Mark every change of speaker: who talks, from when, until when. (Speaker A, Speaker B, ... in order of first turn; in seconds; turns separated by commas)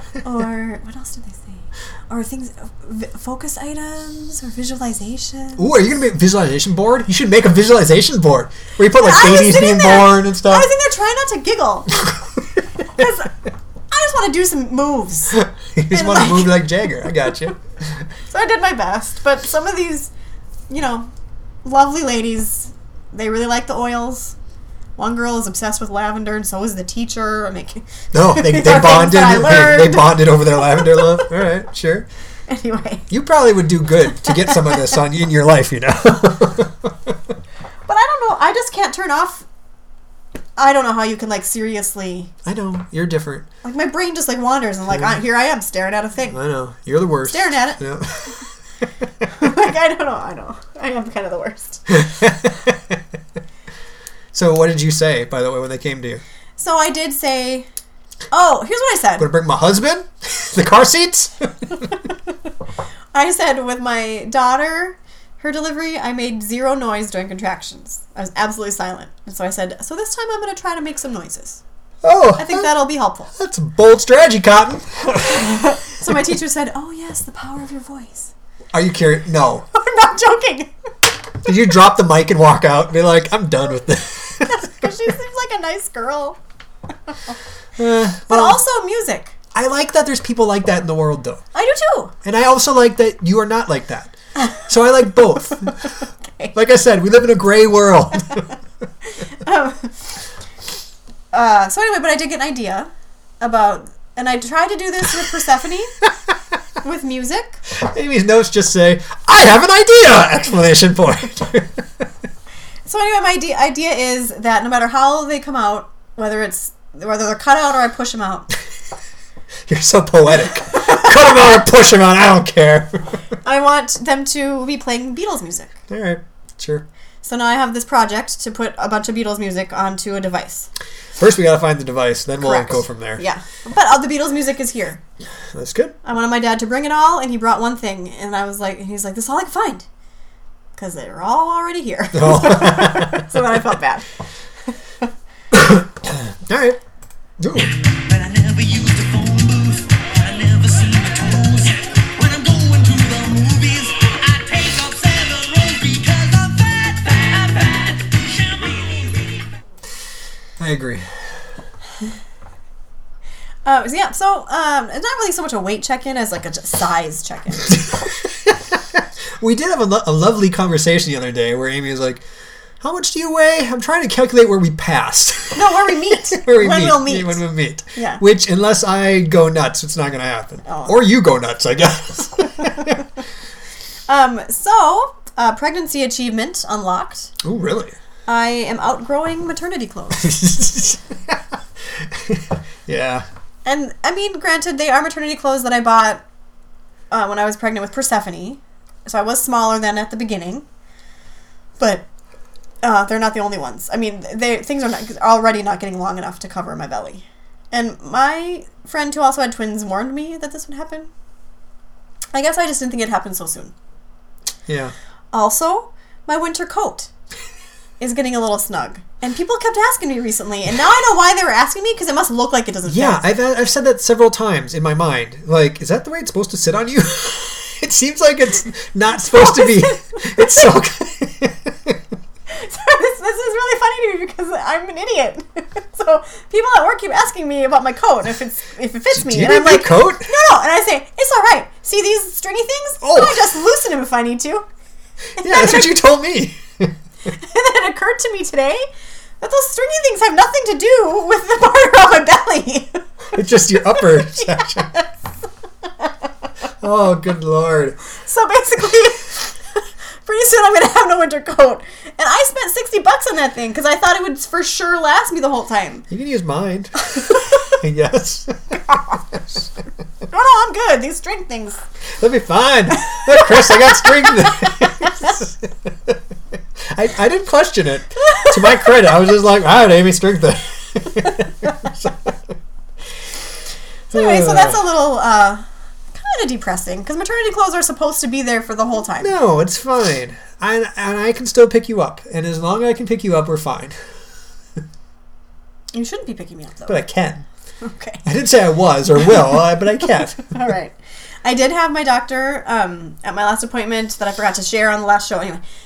Speaker A: 0.2-5.6, Speaker B: 5.6-10.7, Speaker A: 9.0-12.0, Speaker A: 12.9-13.4, Speaker A: 13.9-15.4, Speaker B: 15.3-18.1, Speaker A: 15.9-16.6, Speaker A: 18.3-20.1, Speaker A: 20.7-21.1, Speaker A: 21.6-24.3, Speaker A: 25.0-31.3, Speaker B: 28.1-32.1, Speaker A: 32.5-33.0, Speaker B: 33.1-37.2, Speaker A: 34.2-34.7, Speaker A: 37.9-39.5, Speaker A: 40.6-42.3, Speaker B: 42.4-43.5, Speaker A: 43.6-46.4, Speaker B: 46.3-48.4, Speaker A: 47.3-47.8, Speaker A: 49.3-51.8, Speaker B: 51.9-53.0, Speaker B: 54.3-56.2, Speaker A: 56.6-57.7, Speaker A: 58.3-59.3, Speaker B: 59.2-61.9, Speaker A: 63.1-71.6, Speaker B: 72.0-72.8, Speaker A: 72.4-73.3, Speaker B: 73.3-75.6, Speaker A: 75.3-78.3, Speaker B: 78.7-79.7, Speaker A: 79.7-80.7, Speaker B: 81.4-84.6, Speaker A: 84.4-86.4, Speaker B: 87.8-88.6, Speaker A: 88.3-89.3, Speaker B: 89.5-91.4, Speaker A: 91.5-92.1, Speaker B: 92.2-95.9, Speaker A: 96.2-96.5, Speaker B: 96.5-98.4, Speaker A: 99.3-100.2, Speaker A: 101.3-106.0, Speaker A: 106.8-107.6, Speaker B: 107.7-112.0, Speaker A: 112.8-118.5, Speaker B: 119.7-123.1, Speaker A: 120.7-121.1, Speaker A: 123.4-125.8, Speaker B: 125.9-126.8, Speaker A: 127.2-130.7, Speaker B: 131.2-133.2, Speaker A: 132.4-135.0, Speaker B: 135.5-135.9, Speaker A: 136.0-139.8, Speaker A: 140.8-144.1, Speaker B: 142.1-143.2, Speaker B: 145.5-146.8, Speaker B: 147.4-147.7, Speaker C: 148.1-159.5, Speaker B: 160.6-161.1, Speaker A: 163.6-167.8, Speaker B: 168.4-172.2, Speaker B: 172.8-183.0, Speaker A: 175.5-177.4, Speaker A: 177.9-178.2, Speaker A: 180.7-180.9, Speaker A: 184.1-187.3, Speaker B: 187.4-187.9, Speaker A: 188.3-190.3, Speaker B: 190.2-191.4, Speaker B: 191.9-193.2, Speaker A: 193.6-196.2, Speaker A: 197.1-200.6, Speaker A: 201.8-202.0, Speaker A: 202.8-211.1, Speaker A: 212.3-213.7, Speaker B: 214.7-214.9, Speaker A: 215.3-217.1, Speaker A: 218.0-223.2, Speaker B: 222.8-232.0, Speaker A: 229.2-230.7, Speaker A: 232.5-244.6, Speaker B: 239.1-240.3, Speaker B: 243.0-243.5, Speaker B: 245.4-246.9, Speaker A: 245.4-245.9, Speaker A: 247.3-248.8, Speaker A: 249.4-253.0, Speaker B: 253.3-254.9, Speaker A: 253.9-255.1, Speaker B: 256.8-258.0, Speaker A: 258.1-266.1, Speaker B: 266.1-269.6, Speaker A: 270.3-271.8, Speaker B: 272.2-276.2, Speaker A: 273.1-275.3, Speaker B: 276.9-282.4, Speaker A: 284.1-289.3, Speaker B: 284.1-284.8, Speaker B: 289.1-294.0, Speaker A: 295.9-297.0, Speaker B: 296.9-297.4, Speaker A: 297.8-298.2, Speaker B: 298.2-300.5, Speaker A: 300.4-305.6